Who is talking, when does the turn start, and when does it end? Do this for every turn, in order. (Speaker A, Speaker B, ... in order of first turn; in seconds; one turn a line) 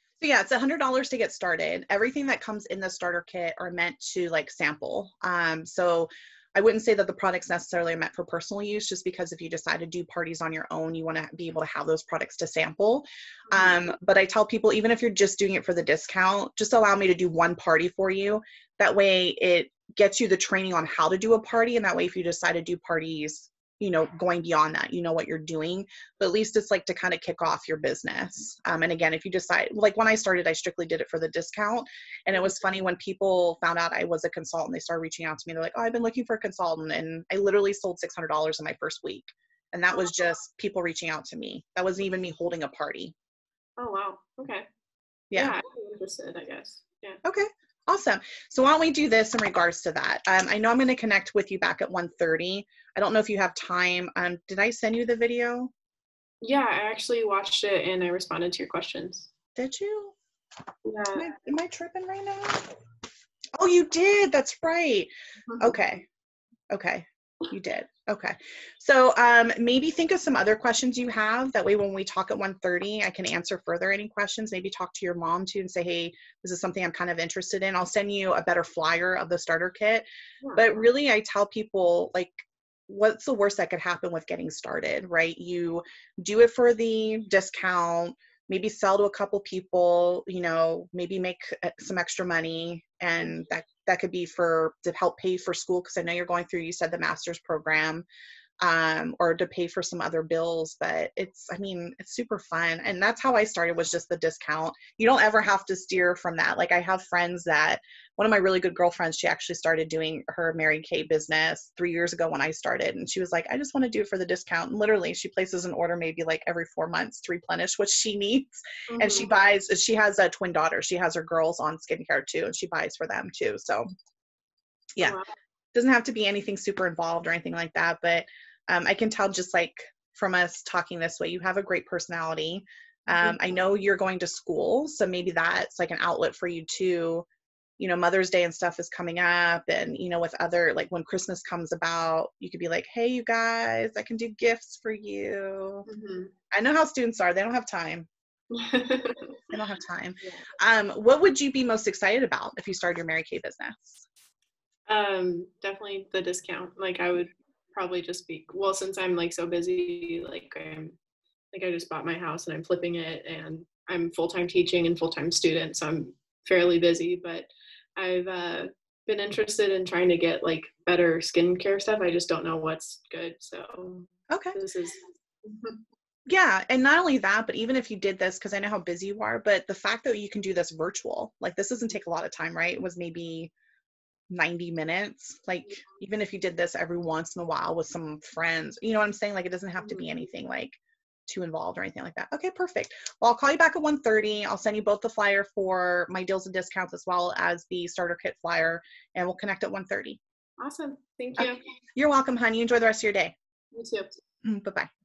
Speaker A: 0.2-43.1
Speaker B: 13.5-13.8
Speaker B: 43.8-44.7
Speaker B: 45.3-47.2
Speaker A: 47.2-55.7
Speaker B: 56.4-59.3
Speaker A: 59.6-60.1
Speaker B: 60.9-61.3
Speaker A: 61.1-62.8
Speaker A: 63.6-66.1
Speaker A: 66.7-98.0
Speaker A: 98.6-123.9
Speaker B: 118.9-119.3
Speaker B: 125.0-125.3
Speaker A: 125.7-137.3
Speaker A: 137.8-145.9
Speaker B: 145.9-146.3
Speaker A: 146.5-148.1
Speaker B: 148.5-149.4
Speaker A: 149.5-154.0
Speaker B: 154.9-161.0
Speaker B: 161.5-175.8
Speaker A: 174.3-174.6
Speaker A: 176.3-183.5
Speaker A: 184.3-200.2
Speaker B: 200.6-201.6
Speaker A: 201.4-203.3
Speaker B: 203.7-204.2
Speaker A: 204.4-204.9